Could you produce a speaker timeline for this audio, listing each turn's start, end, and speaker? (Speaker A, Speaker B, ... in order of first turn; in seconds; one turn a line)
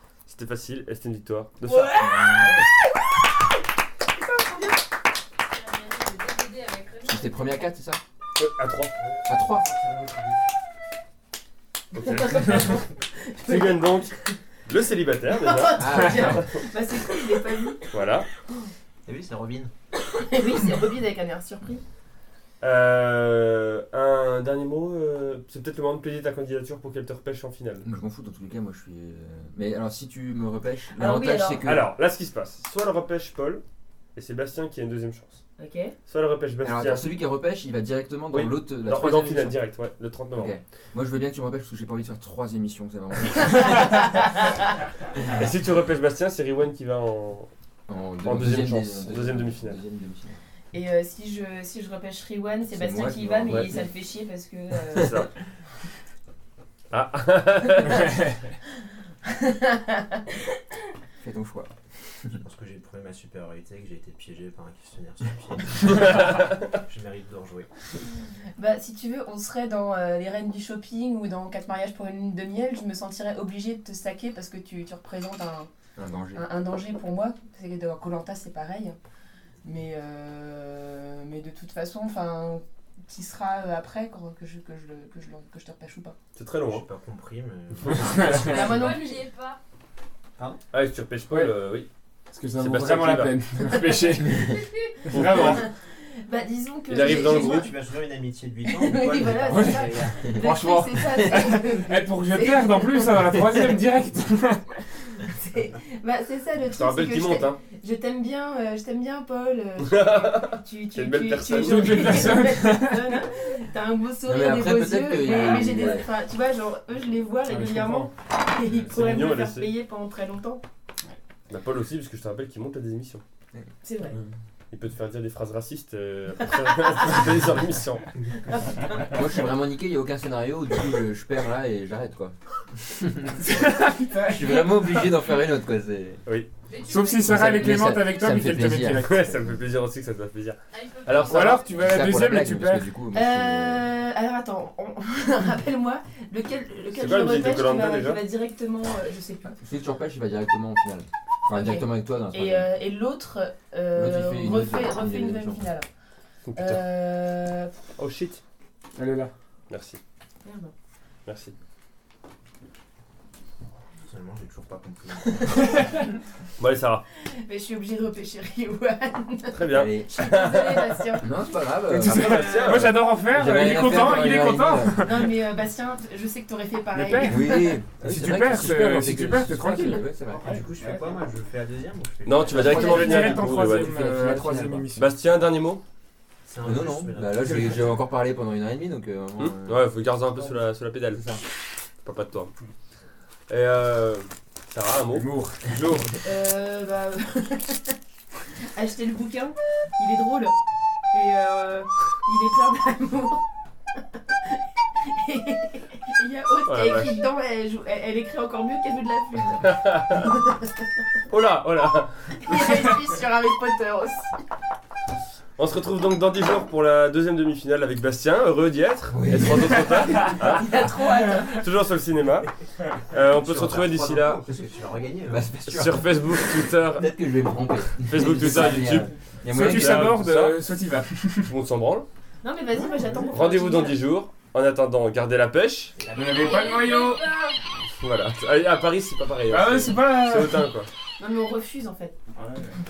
Speaker A: 0.3-2.0
Speaker B: 1.6-3.2
Speaker C: 1.9-2.7
Speaker B: 4.2-4.8
Speaker D: 5.4-7.7
Speaker C: 7.0-8.0
Speaker A: 8.4-8.9
Speaker C: 9.3-9.7
Speaker E: 9.7-10.4
Speaker A: 11.9-12.8
Speaker B: 11.9-14.3
Speaker A: 13.4-16.6
Speaker B: 15.3-18.0
Speaker C: 15.8-16.4
Speaker A: 17.9-18.3
Speaker E: 19.1-19.7
Speaker B: 20.1-21.8
Speaker A: 22.6-27.9
Speaker C: 27.8-31.9
Speaker B: 30.9-31.7
Speaker A: 31.6-33.6
Speaker A: 34.2-35.4
Speaker B: 35.6-36.0
Speaker A: 36.1-37.1
Speaker C: 36.6-39.6
Speaker A: 38.3-40.5
Speaker C: 40.3-44.2
Speaker B: 43.5-43.9
Speaker A: 45.3-47.5
Speaker C: 47.9-50.4
Speaker A: 48.2-49.8
Speaker B: 50.7-55.2
Speaker C: 52.7-53.9
Speaker A: 54.9-55.3
Speaker A: 56.9-58.1
Speaker B: 59.2-60.2
Speaker C: 61.2-61.7
Speaker E: 62.4-67.7
Speaker A: 66.0-66.4
Speaker B: 68.6-75.7
Speaker C: 76.0-76.5
Speaker B: 76.3-79.0
Speaker B: 79.6-86.2
Speaker A: 86.3-86.8
Speaker E: 86.6-89.1
Speaker B: 88.2-89.3
Speaker D: 88.3-89.6
Speaker A: 90.7-91.9
Speaker F: 92.3-95.7
Speaker A: 92.6-93.3
Speaker A: 95.1-95.7
Speaker B: 95.3-97.7
Speaker A: 96.9-97.7
Speaker E: 97.0-100.5
Speaker B: 98.6-103.2
Speaker F: 99.5-104.7
Speaker B: 105.2-120.6
Speaker A: 106.7-107.6
Speaker A: 109.8-112.3
Speaker F: 111.5-113.2
Speaker C: 114.2-116.1
Speaker F: 117.5-118.1
Speaker A: 118.9-119.7
Speaker A: 121.5-123.2
Speaker B: 123.8-124.2
Speaker A: 124.7-128.1
Speaker B: 126.7-127.2
Speaker B: 128.5-129.2
Speaker C: 129.1-133.4
Speaker F: 133.4-135.0
Speaker C: 134.3-136.2
Speaker D: 136.7-138.6
Speaker F: 136.9-139.2
Speaker C: 137.0-139.6
Speaker A: 139.0-141.6
Speaker D: 140.7-141.8
Speaker F: 141.3-142.9
Speaker C: 141.7-143.8
Speaker B: 143.1-149.5
Speaker A: 146.9-148.2
Speaker C: 149.4-152.7
Speaker B: 151.5-155.9
Speaker C: 153.9-155.6
Speaker A: 156.5-156.8
Speaker B: 156.6-157.7
Speaker A: 158.0-158.4
Speaker F: 158.9-159.3
Speaker A: 159.7-160.0
Speaker B: 160.4-160.7
Speaker A: 161.3-161.6
Speaker E: 164.1-166.0
Speaker A: 166.6-167.1
Speaker B: 167.2-171.6
Speaker A: 169.5-171.2
Speaker C: 169.7-170.2
Speaker C: 171.2-172.5
Speaker F: 171.9-175.3
Speaker A: 172.0-173.0
Speaker B: 172.2-172.9
Speaker C: 173.3-175.2
Speaker A: 173.8-174.5
Speaker B: 175.0-177.8
Speaker F: 176.9-180.1
Speaker C: 177.2-180.6
Speaker E: 180.2-183.1
Speaker B: 180.4-181.2
Speaker A: 182.2-183.9
Speaker C: 182.5-184.9
Speaker F: 182.6-185.2
Speaker A: 184.9-185.8
Speaker E: 186.4-188.0
Speaker C: 186.6-189.9
Speaker A: 189.4-191.5
Speaker A: 192.0-192.5
Speaker A: 193.5-196.2
Speaker F: 195.2-195.5
Speaker B: 196.2-198.0
Speaker B: 198.7-200.6
Speaker B: 201.1-203.4
Speaker B: 204.4-210.7
Speaker A: 206.7-207.2
Speaker A: 209.6-210.3
Speaker A: 211.3-212.8
Speaker B: 212.4-214.4
Speaker A: 215.6-220.9
Speaker C: 219.1-220.1
Speaker B: 220.0-221.6
Speaker A: 221.4-222.6
Speaker A: 223.1-224.4
Speaker E: 223.3-225.5
Speaker C: 225.3-230.2
Speaker A: 225.7-227.1
Speaker A: 228.0-230.6
Speaker F: 229.5-231.6
Speaker A: 231.4-232.1
Speaker B: 232.4-234.1
Speaker A: 233.3-236.0
Speaker E: 236.0-236.7
Speaker F: 236.1-237.3
Speaker D: 236.3-237.6
Speaker A: 238.0-240.9
Speaker F: 239.5-240.7
Speaker B: 241.2-242.2
Speaker F: 242.3-242.8